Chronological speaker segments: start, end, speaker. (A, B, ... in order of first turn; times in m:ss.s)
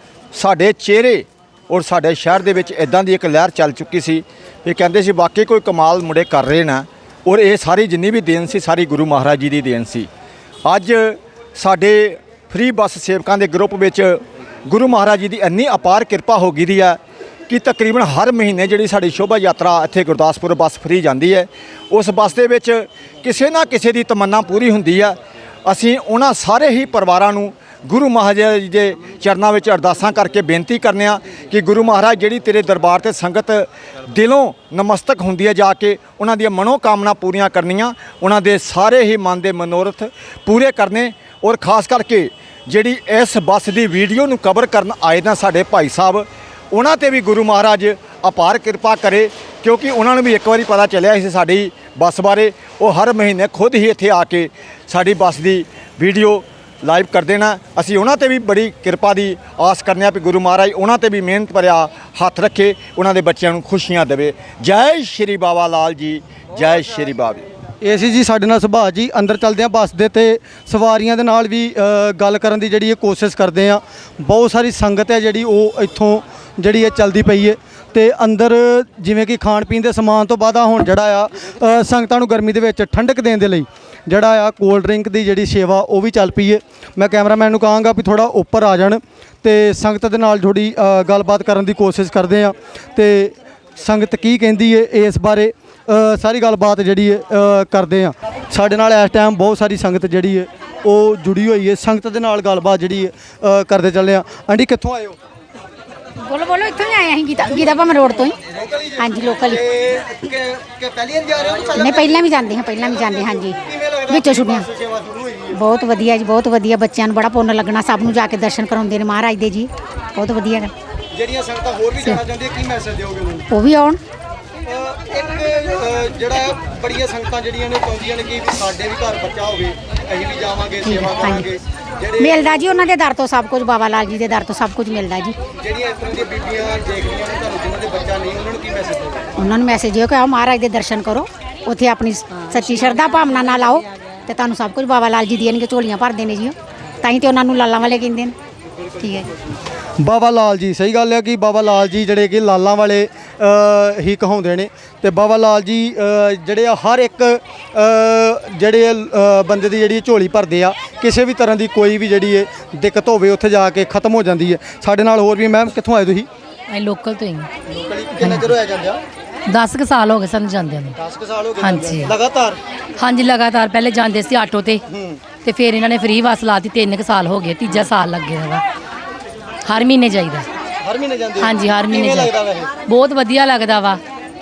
0:00.3-0:10.1 A
0:10.6-0:17.0 A
0:17.5-1:07.4 A
1:07.8-1:45.2 B
1:46.2-1:48.4 C
1:47.5-1:55.6 B
1:49.0-1:49.6 C
1:51.7-1:54.6 C
1:55.5-2:00.7 C
2:01.1-2:03.5 B
2:03.5-2:04.0 C
2:04.6-2:12.5 B
2:10.8-2:11.4 C
2:12.2-2:15.4 C
2:15.6-2:19.2 B
2:19.4-2:28.4 C
2:28.9-2:29.3 C
2:30.0-2:46.3 B
2:46.7-2:47.5 D
2:47.7-2:49.0 B
2:48.2-2:48.5 D
2:49.4-2:51.0 D
2:51.0-2:52.6 B
2:51.6-2:52.1 D
2:53.0-2:54.8 D
2:54.9-2:55.2 B
2:55.4-2:58.6 D
2:59.6-3:00.5 D
3:00.8-3:02.7 B
3:01.4-3:02.3 D
3:02.8-3:04.0 D